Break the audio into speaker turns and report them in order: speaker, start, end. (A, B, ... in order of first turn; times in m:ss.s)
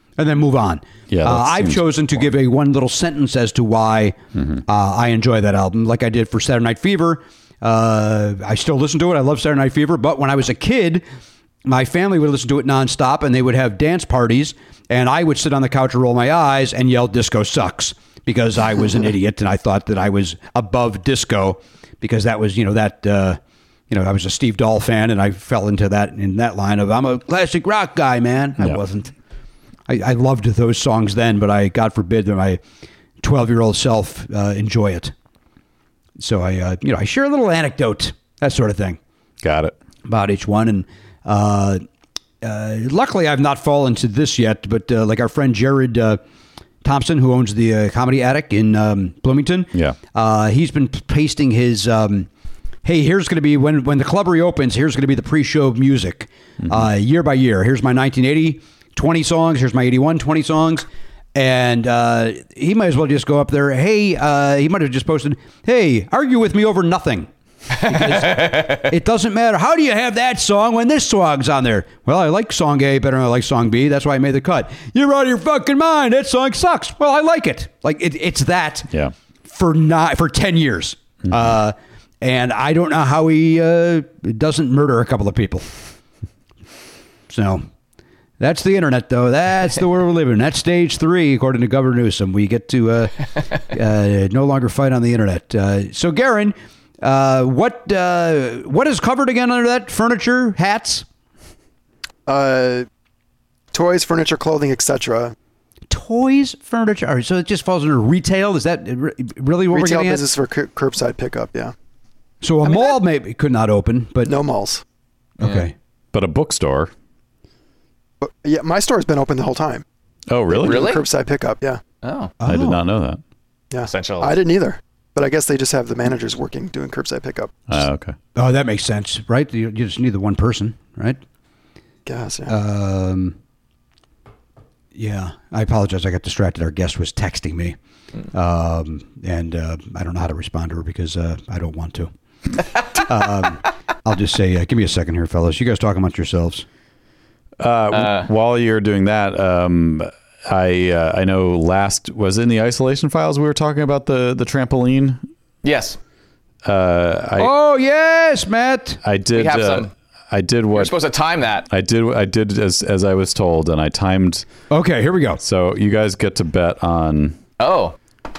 0:00.2-0:11.0 A
0:01.1-0:02.1 B
0:04.3-0:04.6 B
0:11.6-0:23.4 A
0:23.9-0:29.1 A
0:29.9-0:32.6 A
0:33.2-0:35.1 A
0:36.2-0:39.0 A
0:39.4-0:39.8 B
0:40.0-0:41.8 A
0:42.4-0:46.2 A
0:46.8-0:52.3 A
0:52.8-1:18.9 A
1:19.4-1:25.7 A
1:27.3-1:27.6 A
1:28.4-1:41.0 A
1:42.3-1:42.9 C
1:43.7-1:45.3 C
1:45.9-1:50.2 A
1:49.7-1:51.7 C
1:52.4-1:54.3 A
1:54.2-1:54.8 C
1:55.4-1:55.7 A
1:55.4-1:55.6 D
1:56.1-1:56.9 B
1:58.2-1:59.8 C
2:00.3-2:00.9 B
2:00.5-2:01.8 C
2:00.6-2:01.0 D
2:02.0-2:02.3 D
2:02.4-2:02.8 A
2:02.4-2:03.2 B
2:03.7-2:07.7 C
2:03.8-2:04.4 D
2:07.7-2:08.2 B
2:08.3-2:11.2 A
2:12.0-2:12.6 C
2:12.5-2:13.4 A
2:14.9-2:17.8 A
2:18.3-2:22.1 A
2:22.9-2:26.6 A
2:27.6-2:35.2 B
2:27.9-2:28.3 D
2:35.6-2:36.0 D
2:36.6-2:37.5 B
2:37.4-2:39.0 A
2:39.0-2:41.0 B
2:39.3-2:39.9 D
2:40.7-2:41.7 D
2:41.7-2:44.4 B
2:44.7-2:45.4 A
2:45.4-2:47.4 B
2:47.6-2:47.9 D